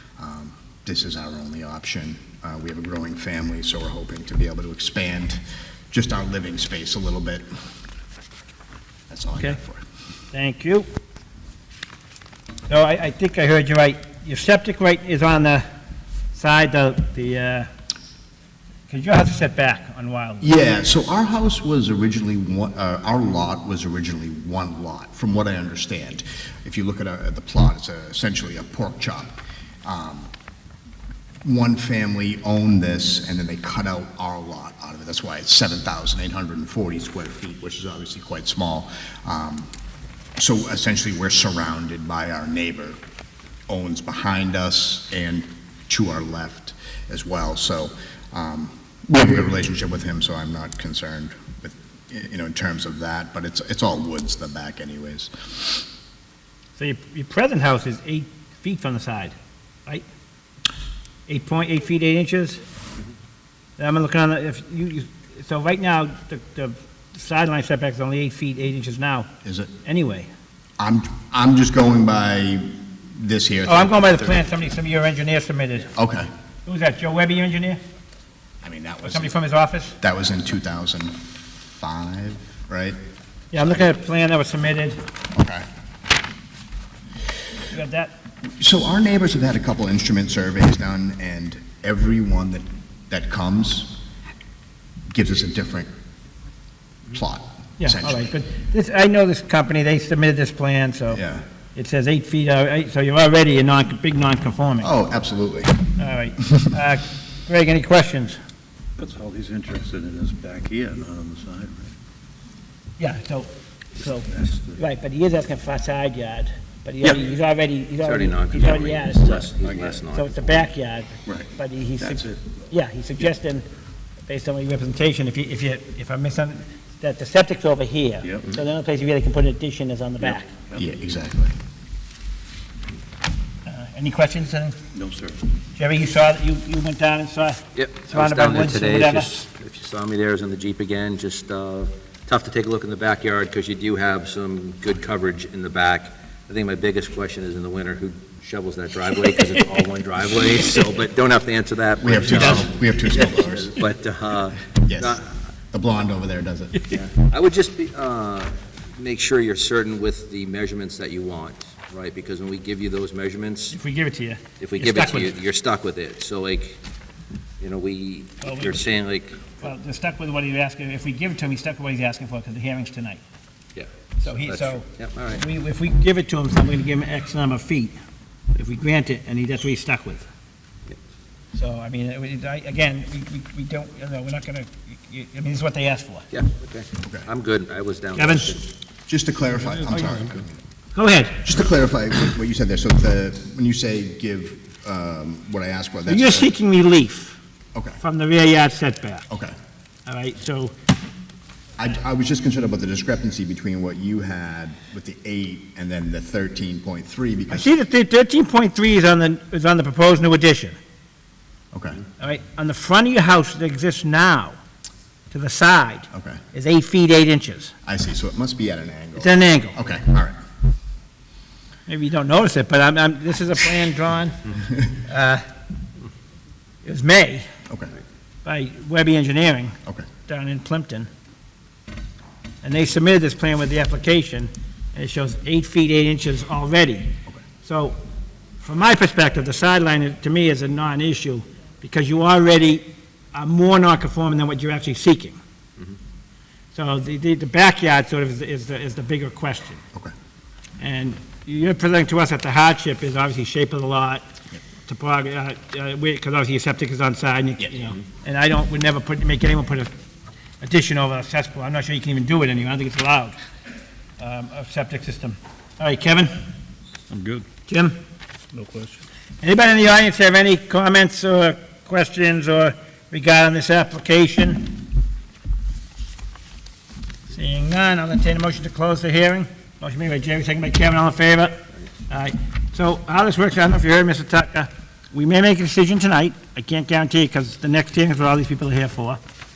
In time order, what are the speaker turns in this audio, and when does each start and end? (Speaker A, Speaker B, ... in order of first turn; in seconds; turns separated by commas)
Speaker A: 0.2-5.4, Speaker A: 5.9-7.5, Speaker A: 9.1-9.8, Speaker B: 10.3-10.9, Speaker B: 12.7-15.6, Speaker B: 16.3-17.7, Speaker B: 18.9-20.5, Speaker A: 20.4-30.3, Speaker A: 31.4-39.7, Speaker A: 40.4-43.0, Speaker A: 43.7-55.9, Speaker B: 56.8-60.0, Speaker B: 61.3-62.6, Speaker B: 63.8-69.3, Speaker A: 69.4-69.7, Speaker B: 69.8-70.3, Speaker A: 70.8-74.5, Speaker B: 73.7-75.9, Speaker A: 75.9-76.3, Speaker B: 76.7-77.8, Speaker A: 78.6-79.4, Speaker B: 79.0-80.0, Speaker A: 80.0-81.2, Speaker A: 81.8-83.0, Speaker B: 83.5-85.0, Speaker A: 85.3-85.7, Speaker B: 87.7-88.1, Speaker A: 88.6-94.0, Speaker A: 95.1-95.9, Speaker A: 97.1-98.3, Speaker B: 97.8-101.2, Speaker A: 101.1-101.4, Speaker B: 101.8-104.9, Speaker A: 104.8-105.9, Speaker B: 106.0-108.4, Speaker C: 109.0-111.9, Speaker B: 113.0-114.3, Speaker C: 114.3-114.8, Speaker B: 114.8-119.5, Speaker D: 118.0-120.7, Speaker C: 119.4-120.1, Speaker B: 120.1-123.7, Speaker C: 121.2-122.5, Speaker B: 124.3-130.5, Speaker C: 128.2-128.6, Speaker A: 130.7-131.6, Speaker B: 133.7-134.8, Speaker C: 134.9-135.4, Speaker B: 135.8-139.4, Speaker D: 137.7-155.3, Speaker A: 152.0-153.8, Speaker B: 152.3-152.6, Speaker A: 154.8-155.2, Speaker A: 155.7-156.9, Speaker D: 156.9-163.8, Speaker B: 163.7-165.3, Speaker D: 164.6-166.8, Speaker D: 167.6-169.6, Speaker B: 168.4-168.8, Speaker B: 169.6-173.2, Speaker D: 173.7-175.4, Speaker B: 174.2-178.0, Speaker B: 178.5-180.3, Speaker B: 181.5-186.2, Speaker D: 186.3-188.7, Speaker A: 187.0-187.3, Speaker B: 188.2-188.6, Speaker A: 189.1-190.6, Speaker B: 189.7-190.3, Speaker B: 190.9-191.3, Speaker A: 191.4-196.5, Speaker B: 196.1-197.4, Speaker A: 197.7-198.0, Speaker B: 198.0-199.3, Speaker A: 199.3-199.5, Speaker B: 200.1-200.7, Speaker A: 201.8-207.7, Speaker B: 207.5-210.8, Speaker A: 211.7-212.0, Speaker B: 212.2-214.6, Speaker B: 215.3-217.7, Speaker A: 216.1-216.4, Speaker A: 217.8-220.4, Speaker B: 219.2-219.7, Speaker B: 221.9-224.5, Speaker A: 224.6-224.9, Speaker B: 225.1-225.4, Speaker B: 226.8-227.4, Speaker B: 228.4-231.1, Speaker B: 232.6-238.0, Speaker B: 238.6-245.4, Speaker B: 246.7-249.8, Speaker B: 250.8-254.2, Speaker B: 254.9-259.9, Speaker B: 260.6-263.4, Speaker B: 264.2-266.3, Speaker C: 267.1-267.5, Speaker B: 267.6-268.0, Speaker C: 268.5-269.0, Speaker B: 269.4-274.8, Speaker B: 277.3-289.2